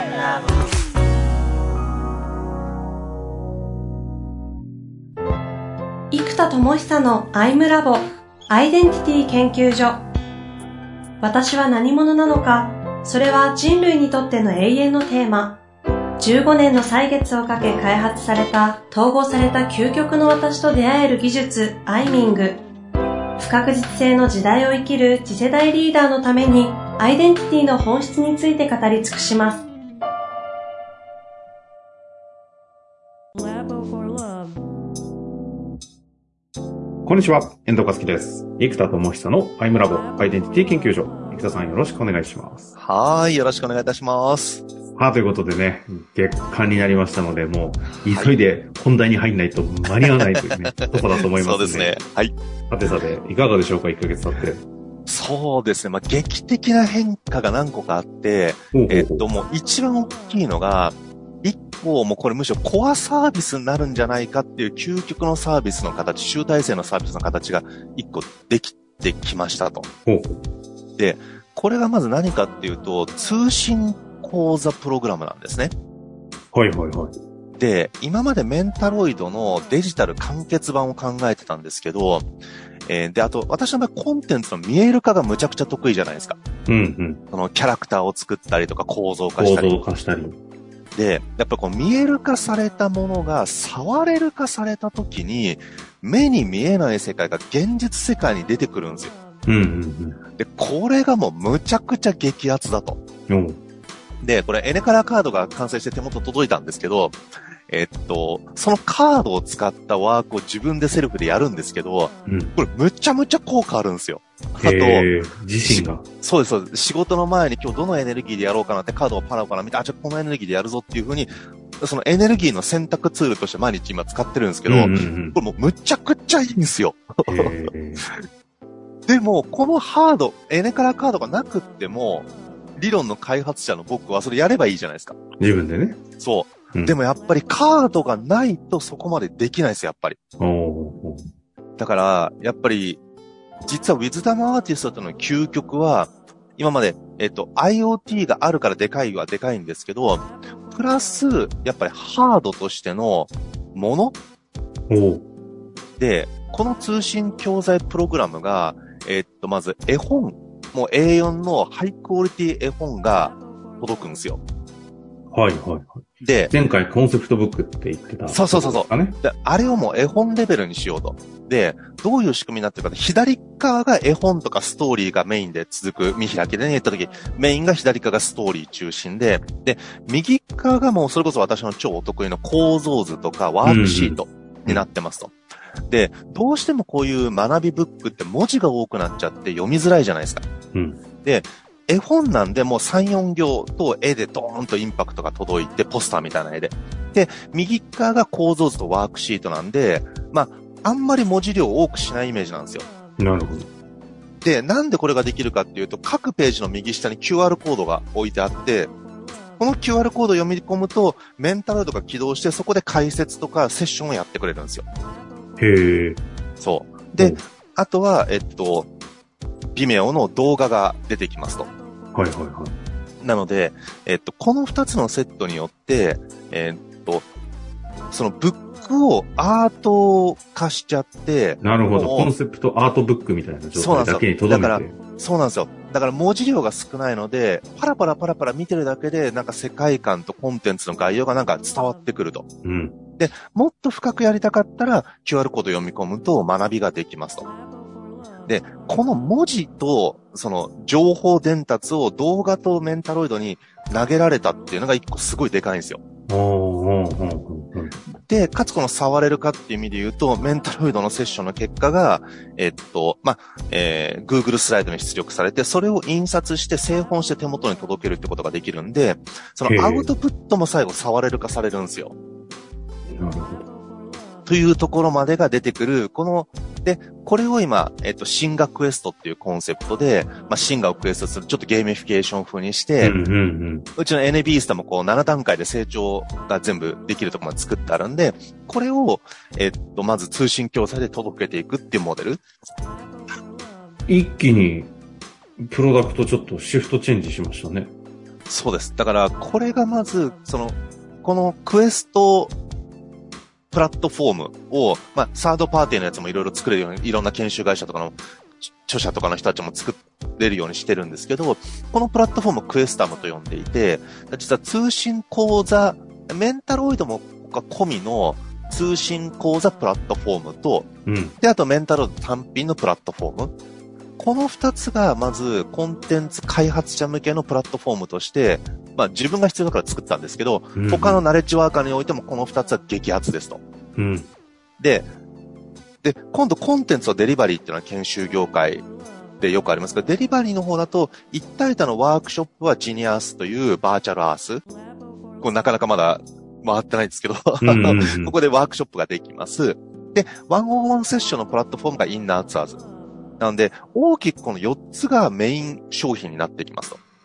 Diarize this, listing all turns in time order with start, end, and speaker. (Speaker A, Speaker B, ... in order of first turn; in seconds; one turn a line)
Speaker A: 6.1-10.0
Speaker A: 11.2-15.6
Speaker A: 16.2-22.6
Speaker A: 23.4-29.6
Speaker B: 37.0-42.7
Speaker C: 42.8-44.6
Speaker B: 45.0-52.0
Speaker C: 48.0-48.3
Speaker C: 50.1-52.4
Speaker B: 52.7-54.6
Speaker C: 55.1-69.9
Speaker B: 58.7-59.3
Speaker B: 70.1-70.4
Speaker C: 71.0-75.7
Speaker B: 76.5-77.1
Speaker C: 77.5-82.3
Speaker C: 82.9-86.4
Speaker B: 86.7-87.2
Speaker C: 87.3-89.7
Speaker B: 89.4-90.4
Speaker C: 90.9-99.1
Speaker B: 99.5-100.2
Speaker C: 100.4-103.0
Speaker B: 103.3-103.6
Speaker C: 104.2-115.1
Speaker B: 112.3-112.5
Speaker B: 114.6-116.0
Speaker C: 115.6-128.2
Speaker B: 124.7-125.4
Speaker B: 127.3-128.1
Speaker C: 129.1-135.2
Speaker B: 135.4-136.0
Speaker C: 136.2-140.2
Speaker B: 140.4-141.3
Speaker C: 141.8-143.0
Speaker C: 143.7-154.2
Speaker B: 154.9-155.3
Speaker C: 156.0-164.4
Speaker B: 165.3-169.2
Speaker C: 166.2-166.5
Speaker C: 168.3-190.5
Speaker B: 183.6-184.9
Speaker B: 190.7-191.0
Speaker C: 191.2-202.9
Speaker B: 203.2-203.7
Speaker C: 204.4-208.9
Speaker C: 209.6-214.9
Speaker B: 215.6-216.2
Speaker C: 216.6-218.9
Speaker C: 219.7-221.7
Speaker B: 222.1-222.8
Speaker C: 223.2-227.3
Speaker C: 228.1-232.3
Speaker B: 231.6-235.0
Speaker C: 233.7-242.5
Speaker B: 242.6-243.0
Speaker C: 243.2-247.5
Speaker C: 248.4-256.0
Speaker B: 256.3-258.0
Speaker C: 258.1-272.1
Speaker B: 269.6-270.1
Speaker B: 273.1-273.7
Speaker C: 274.5-283.2
Speaker B: 283.0-283.9
Speaker C: 284.0-292.4
Speaker B: 294.1-294.9
Speaker B: 295.6-297.9
Speaker C: 298.5-302.6
Speaker C: 303.7-320.9
Speaker B: 321.1-321.4
Speaker C: 321.4-323.5
Speaker C: 324.2-333.6
Speaker B: 330.8-331.2
Speaker B: 334.0-334.3
Speaker C: 334.8-335.1
Speaker C: 336.0-338.9
Speaker C: 339.4-344.6
Speaker C: 345.4-352.8
Speaker B: 347.6-348.4
Speaker C: 353.4-357.0